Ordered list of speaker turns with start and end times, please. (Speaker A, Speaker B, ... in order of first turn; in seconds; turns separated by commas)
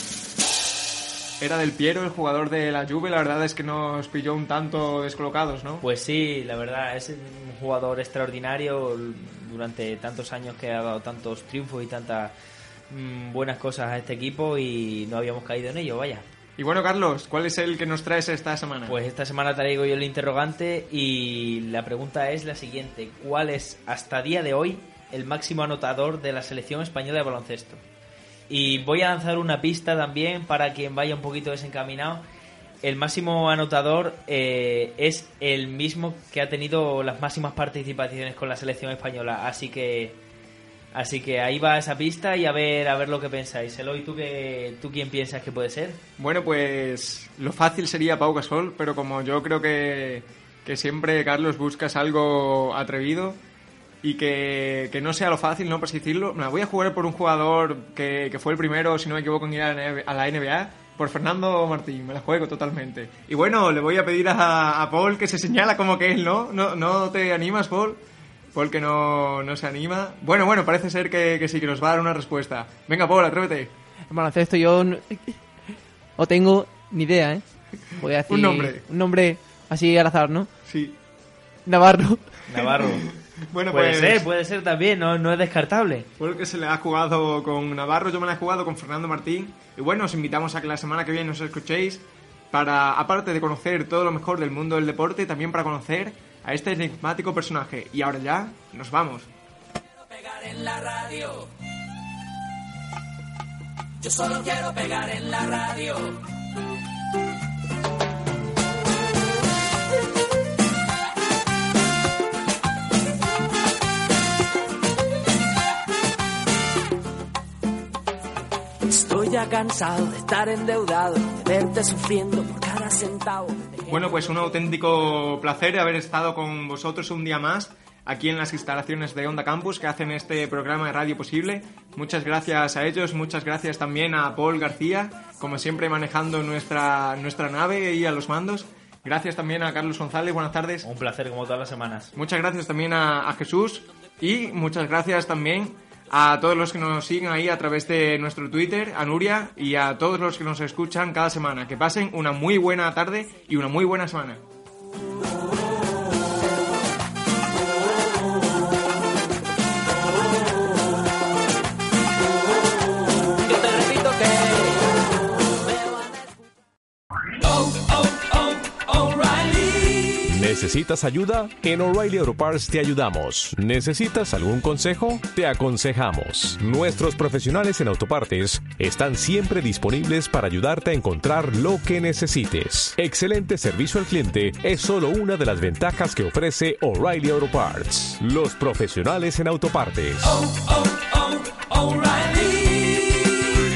Speaker A: 1.4-5.8, Speaker B: 5.8-12.3, Speaker B: 12.9-16.2, Speaker A: 16.6-18.9, Speaker B: 18.9-27.8, Speaker B: 28.5-32.2, Speaker B: 32.8-40.2, Speaker B: 40.9-46.0, Speaker A: 46.2-53.4, Speaker A: 54.0-68.0, Speaker A: 68.5-73.7, Speaker C: 74.1-75.4, Speaker C: 76.2-77.4, Speaker C: 78.0-80.5, Speaker A: 78.3-78.8, Speaker A: 80.7-81.0, Speaker C: 81.7-82.4, Speaker B: 82.5-83.1, Speaker A: 82.6-84.3, Speaker B: 83.7-86.1, Speaker A: 86.2-99.3, Speaker D: 100.1-101.5, Speaker D: 104.0-106.1, Speaker D: 118.9-123.8, Speaker A: 123.9-140.8, Speaker B: 140.8-142.1, Speaker A: 142.1-154.4, Speaker D: 163.4-164.8, Speaker D: 168.9-169.9, Speaker E: 170.3-190.5